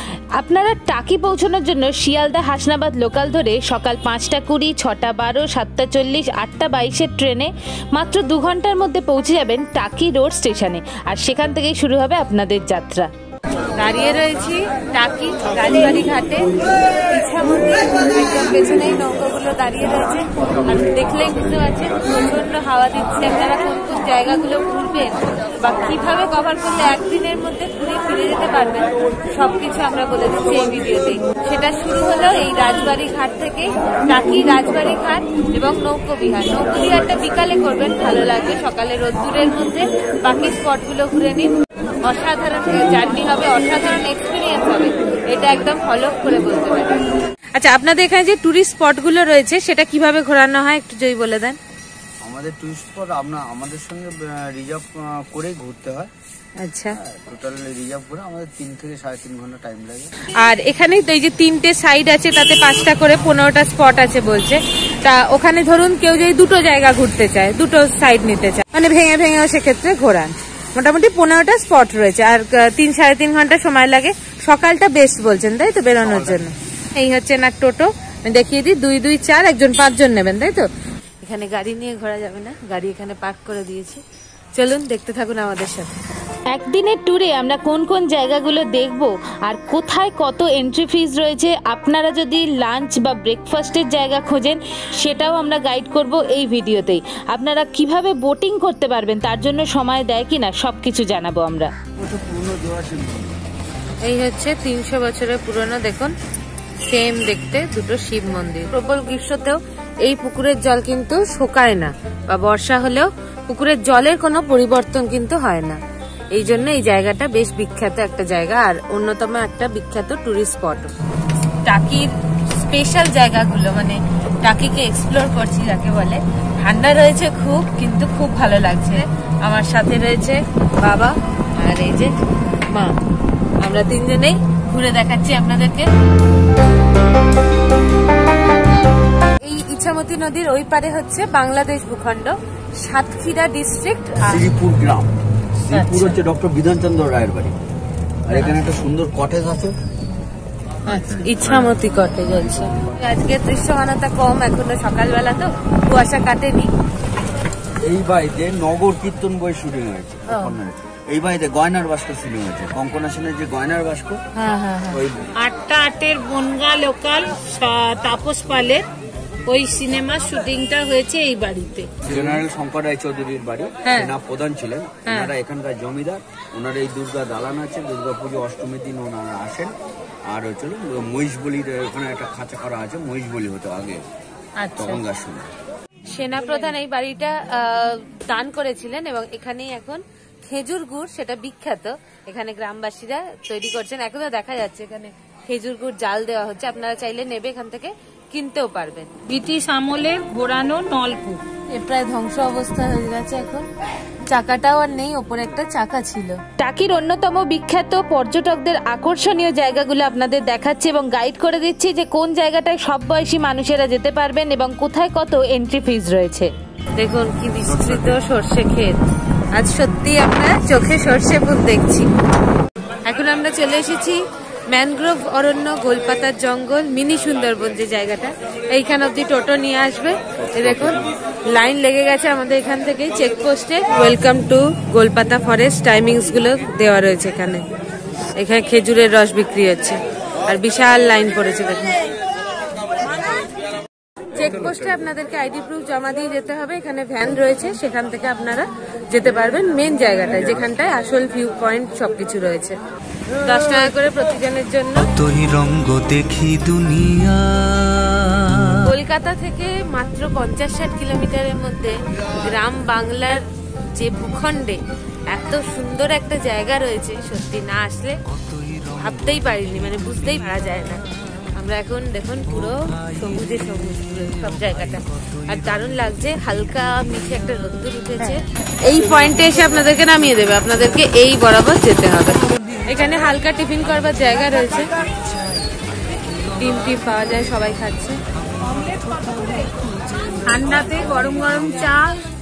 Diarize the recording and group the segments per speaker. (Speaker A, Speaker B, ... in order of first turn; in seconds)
Speaker A: 0.3-13.1, 86.5-101.7, 206.6-216.5
Speaker B: 13.8-16.5, 17.1-41.5, 42.0-47.0, 47.5-51.6, 56.6-57.0, 60.4-80.7, 81.2-84.0, 84.5-85.9, 104.0-106.1, 106.8-115.8, 116.3-120.9, 121.6-132.2, 132.7-132.9, 133.6-135.9, 139.4-144.4, 145.8-146.1, 150.9-156.7, 164.4-164.9, 186.1-199.1, 201.7-203.7, 204.3-206.4, 217.0-219.0, 219.5-222.1, 223.1-237.7, 238.4-242.0, 244.3-252.8, 253.4-255.1, 258.8-264.8, 265.3-268.2, 268.9-284.9, 286.6-288.2
Speaker C: 52.2-56.1, 56.9-60.1, 76.0-76.4, 102.0-103.4, 144.2-147.5, 148.2-149.8, 150.9-151.8, 157.8-164.2, 172.1-179.7, 180.3-184.0, 184.8-185.5
Speaker D: 164.5-164.8, 165.4-168.8, 169.5-172.2, 184.6-185.0, 199.3-201.4, 290.4-292.2
Speaker E: 254.9-258.9, 268.3-269.2, 274.4-275.4, 285.2-285.7, 288.6-290.4